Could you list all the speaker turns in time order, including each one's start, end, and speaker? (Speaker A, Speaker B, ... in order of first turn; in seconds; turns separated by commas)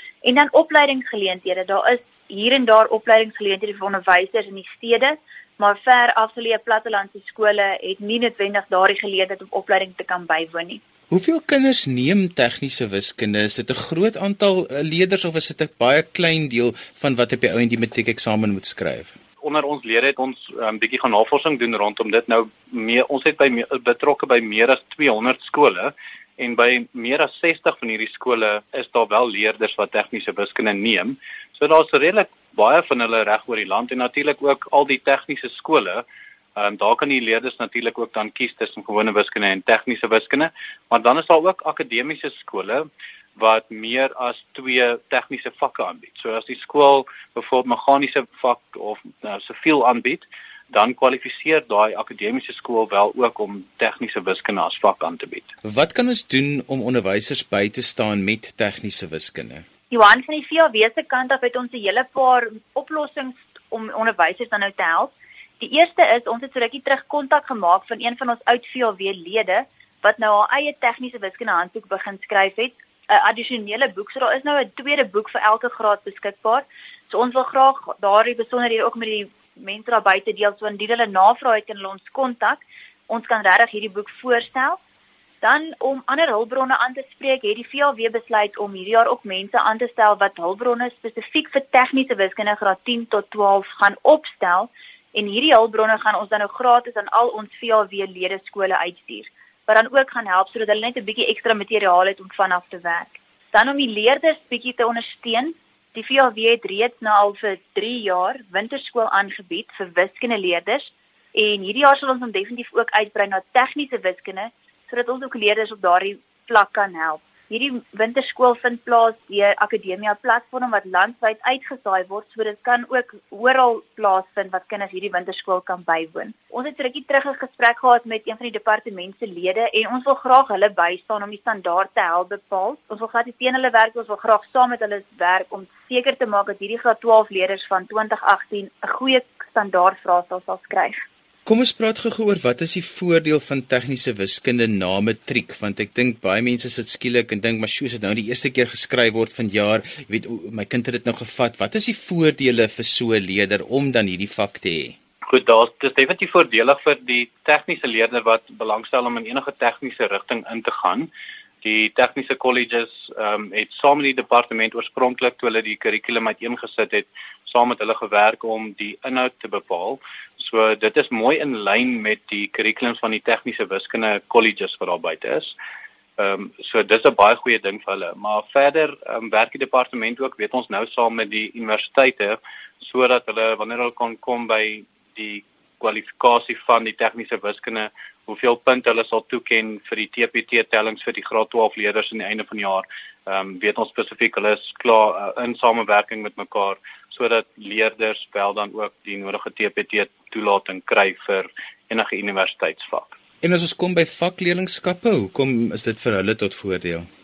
Speaker A: 0.2-10.8, Speaker B: 11.1-19.1, Speaker C: 19.4-36.0, Speaker C: 36.5-42.9, Speaker C: 43.4-55.5, Speaker B: 55.6-59.6, Speaker A: 59.9-84.8, Speaker A: 85.4-141.0, Speaker B: 141.4-154.9, Speaker C: 155.3-161.1, Speaker C: 161.6-175.6, Speaker C: 176.2-203.1, Speaker B: 203.4-207.1